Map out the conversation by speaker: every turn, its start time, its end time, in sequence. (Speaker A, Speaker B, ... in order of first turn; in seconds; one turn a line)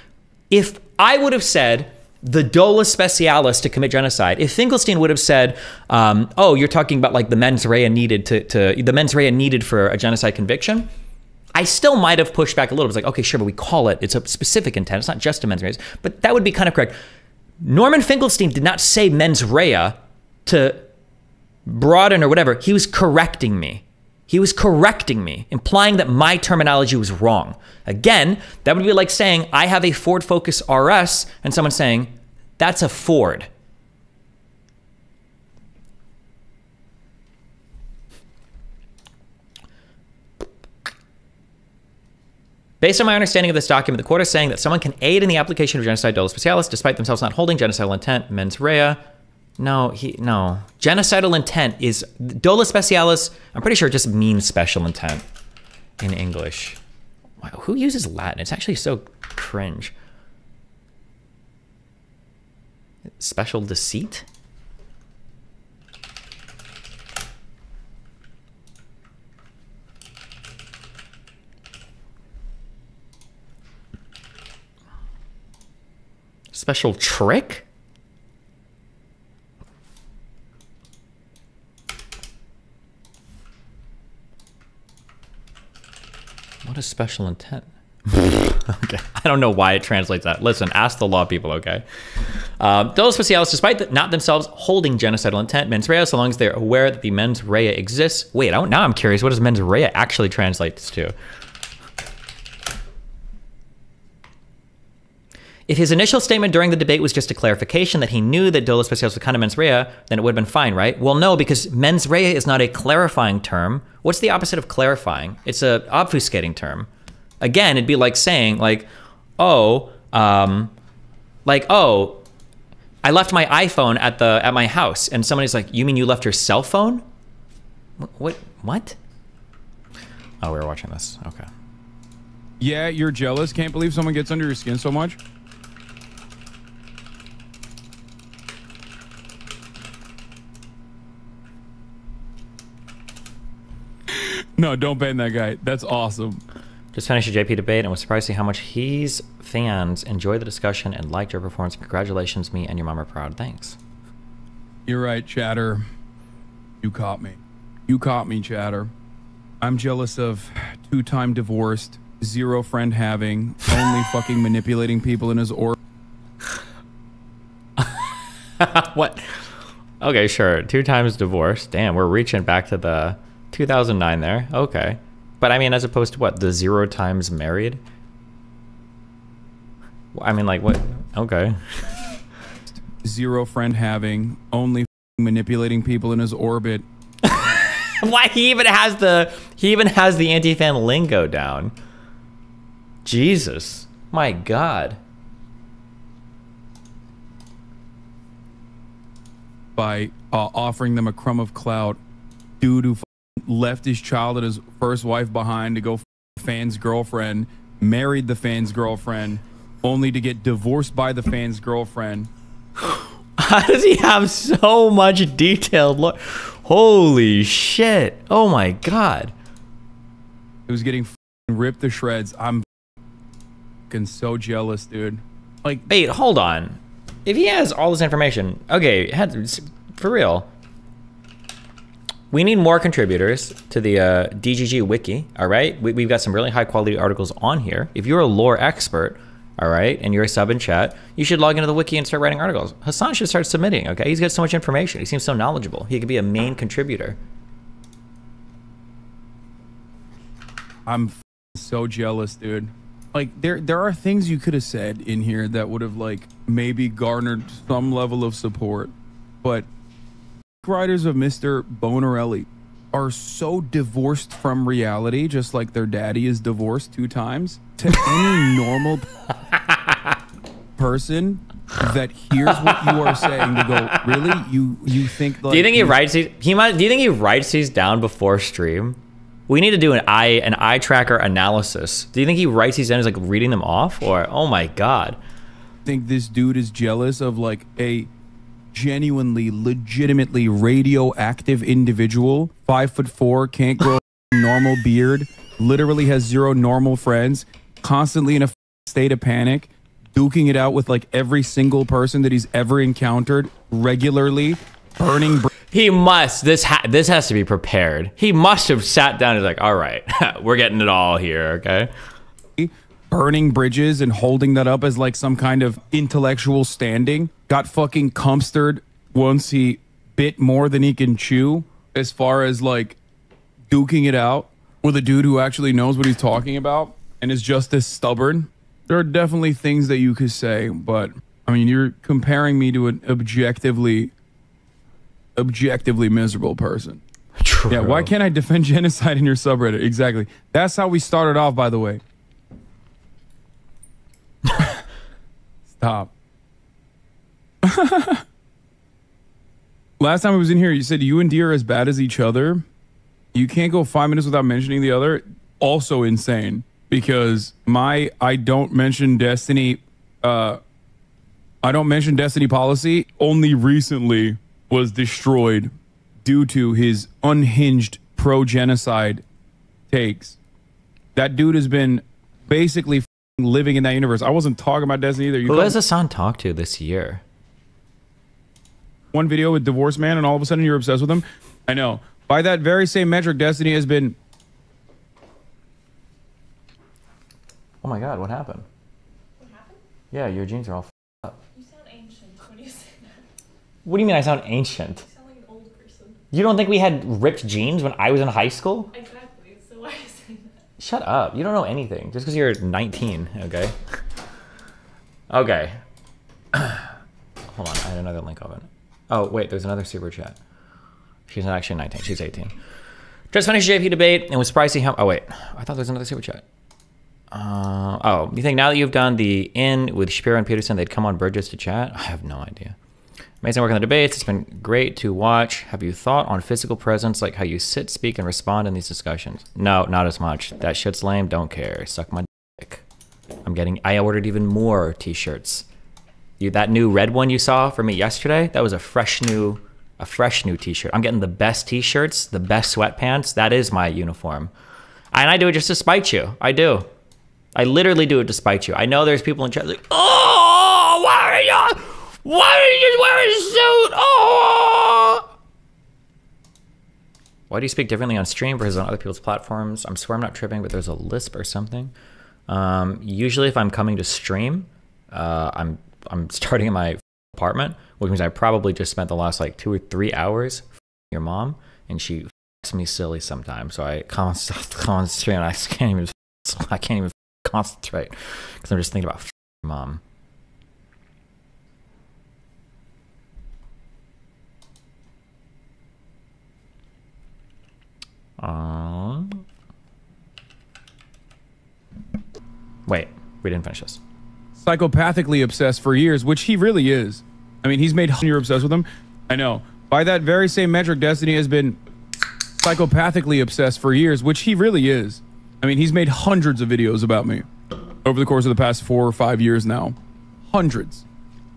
Speaker A: 0.5-10.9
Speaker A: 11.5-17.0
Speaker A: 17.6-20.8
Speaker A: 21.7-33.5
Speaker A: 42.8-49.0
Speaker A: 49.6-55.2
Speaker A: 56.0-56.8
Speaker A: 57.4-60.0
Speaker A: 63.2-64.3
Speaker A: 76.5-77.7
Speaker A: 86.6-91.8
Speaker A: 92.6-101.2
Speaker A: 105.7-116.9
Speaker A: 117.4-120.7
Speaker A: 121.5-122.2
Speaker A: 123.0-127.0
Speaker A: 128.0-129.0
Speaker A: 130.4-131.5
Speaker B: 132.6-135.2
Speaker B: 144.1-146.4
Speaker A: 146.9-153.8
Speaker B: 154.9-155.9
Speaker B: 156.8-158.9
Speaker B: 159.6-165.8
Speaker A: 167.8-169.4
Speaker A: 170.0-177.8
Speaker A: 180.1-182.0
Speaker B: 182.9-186.8
Speaker A: 187.2-191.7
Speaker A: 193.1-195.0
Speaker B: 199.8-202.0
Speaker B: 202.6-212.3
Speaker A: 212.8-219.3
Speaker B: 220.7-222.7
Speaker B: 223.9-225.9
Speaker A: 225.9-230.5
Speaker A: 232.3-247.2
Speaker B: 250.9-259.7
Speaker B: 260.6-269.1
Speaker A: 269.5-270.1
Speaker B: 270.8-276.0
Speaker A: 272.4-274.4
Speaker A: 275.5-285.2
Speaker B: 285.9-288.1
Speaker B: 288.7-305.5
Speaker A: 305.7-311.9
Speaker B: 312.6-323.0
Speaker B: 323.7-334.1
Speaker B: 335.4-337.0
Speaker A: 337.4-338.1
Speaker B: 337.7-342.0
Speaker B: 345.8-346.1
Speaker B: 347.6-348.2
Speaker B: 350.0-352.6
Speaker B: 353.3-360.6
Speaker B: 361.6-365.7
Speaker B: 366.2-369.2
Speaker B: 369.9-370.4
Speaker B: 371.1-375.8
Speaker A: 375.4-377.2
Speaker B: 379.1-384.2
Speaker A: 387.8-388.7
Speaker C: 389.4-389.8
Speaker A: 390.1-391.4
Speaker C: 391.6-393.2
Speaker A: 393.9-395.1
Speaker C: 395.0-396.2
Speaker A: 396.3-398.9
Speaker C: 398.9-400.6
Speaker A: 400.8-403.8
Speaker A: 405.3-405.8
Speaker A: 406.5-406.9
Speaker A: 407.5-410.4
Speaker A: 411.3-412.6
Speaker A: 413.3-416.4
Speaker A: 417.3-422.8
Speaker A: 423.4-432.8
Speaker A: 433.4-435.7
Speaker A: 436.4-444.5
Speaker A: 445.1-446.9
Speaker A: 447.6-455.3
Speaker A: 457.5-461.9
Speaker A: 462.5-480.0
Speaker A: 488.4-489.4
Speaker A: 492.9-494.0
Speaker B: 494.6-501.8
Speaker B: 502.6-507.5
Speaker B: 508.0-510.0
Speaker B: 510.5-511.0